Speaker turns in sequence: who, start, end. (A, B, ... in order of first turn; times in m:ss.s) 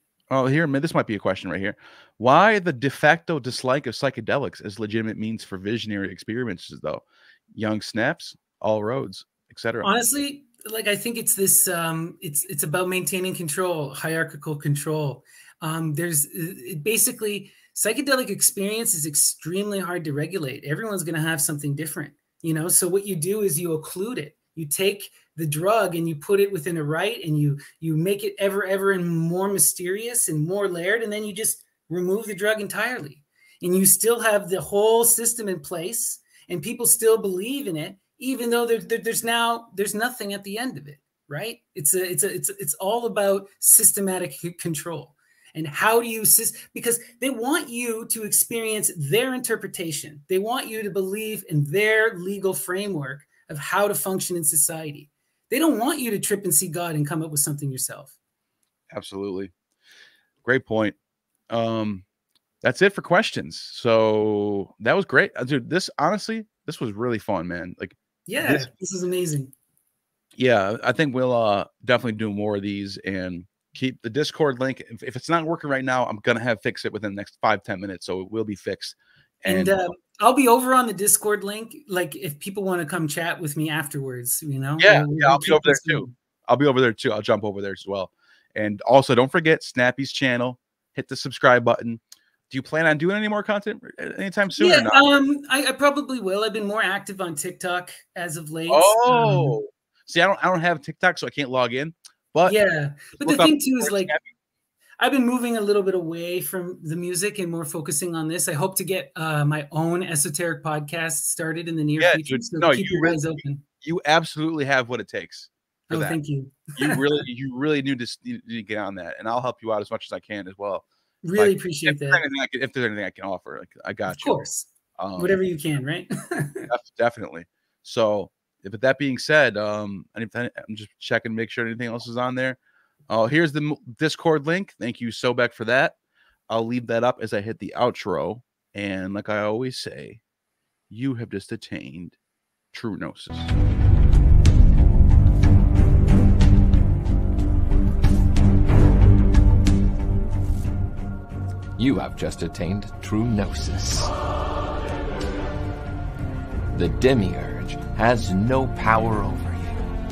0:00.3-0:09.9 A
0:09.8-0:58.1 B
0:58.9-0:59.5 A
1:00.4-1:01.0 A
1:01.5-1:02.0 A
1:02.6-1:08.7 A
1:08.3-1:09.5 B
1:10.4-1:19.7 A
1:19.4-1:26.1 B
1:24.8-1:35.0 A
1:34.6-1:39.6 B
1:38.7-1:42.6 A
1:42.4-1:44.1 B
1:43.2-1:44.2 A
1:45.0-1:53.6 B
1:52.0-1:56.2 A
1:55.9-1:57.0 B
1:56.8-2:04.4 A
2:01.2-2:02.2 B
2:04.1-2:06.7 B
2:05.0-2:05.3 A
2:06.7-2:12.6 A
2:13.1-2:15.9 A
2:16.5-2:20.2 A
2:20.9-2:22.2 A
2:22.7-2:23.5 A
2:31.8-2:34.1 C
2:36.7-2:39.9 C